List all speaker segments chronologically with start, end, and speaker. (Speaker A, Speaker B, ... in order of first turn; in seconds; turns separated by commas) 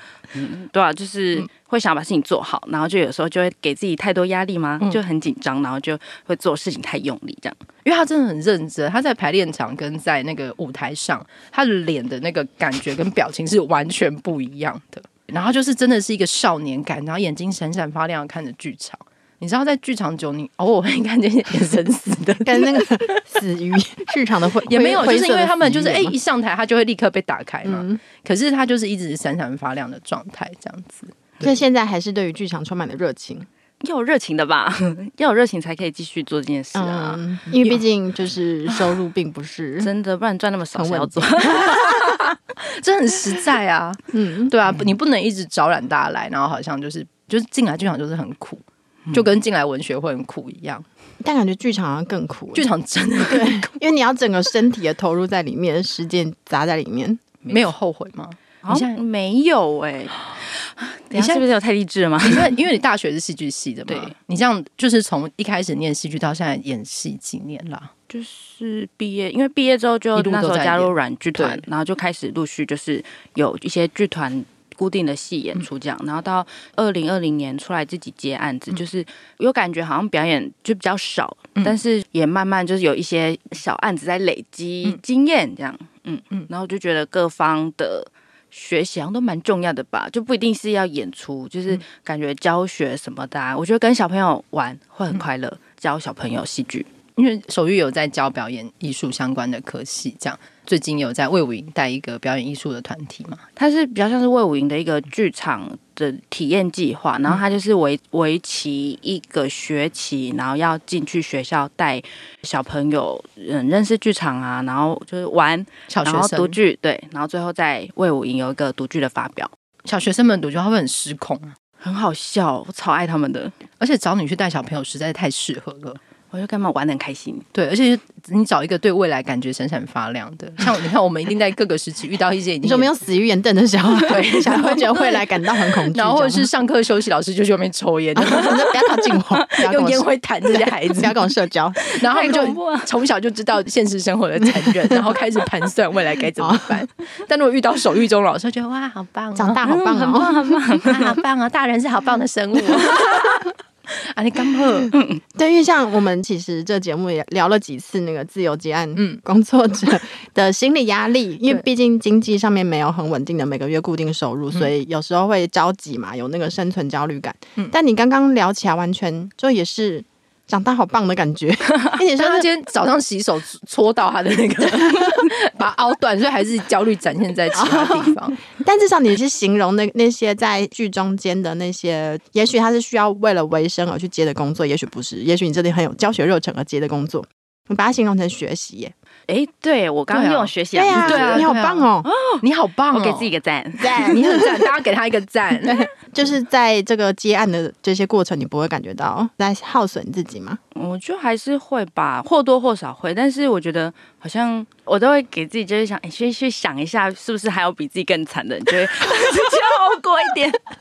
Speaker A: 0.3-7.6, Speaker B: 7.8-23.2, Speaker C: 22.4-26.2, Speaker B: 24.6-31.5, Speaker C: 27.6-28.0, Speaker C: 31.4-33.5, Speaker A: 33.8-37.2, Speaker C: 36.7-39.9, Speaker A: 39.8-42.1, Speaker C: 40.8-41.8, Speaker B: 41.7-50.8, Speaker C: 44.1-44.5, Speaker C: 51.2-52.7, Speaker B: 52.5-53.7, Speaker C: 53.2-57.2, Speaker B: 57.5-59.0, Speaker A: 58.6-62.6, Speaker B: 61.1-61.5, Speaker B: 62.2-67.9, Speaker A: 63.9-64.1, Speaker A: 68.1-96.9, Speaker B: 70.1-71.6, Speaker B: 97.2-103.4, Speaker A: 103.5-119.5, Speaker B: 115.9-116.6, Speaker B: 119.8-121.5, Speaker A: 121.8-123.6, Speaker B: 123.8-126.0, Speaker A: 126.3-127.5, Speaker B: 127.5-132.9, Speaker C: 132.6-136.5, Speaker B: 133.9-141.3, Speaker C: 138.1-141.8, Speaker B: 141.8-149.6, Speaker A: 141.9-142.9, Speaker C: 146.4-146.8, Speaker C: 149.3-150.5, Speaker A: 149.6-151.1, Speaker B: 150.8-154.9, Speaker A: 154.9-155.2, Speaker C: 155.3-172.5, Speaker B: 158.9-159.2, Speaker B: 172.1-178.4, Speaker C: 177.5-188.9, Speaker A: 189.3-191.5, Speaker B: 190.1-191.9, Speaker C: 190.7-192.1, Speaker A: 192.0-194.2, Speaker B: 192.4-193.3, Speaker C: 193.8-194.7, Speaker B: 194.0-195.9, Speaker C: 195.6-200.6, Speaker A: 200.7-210.6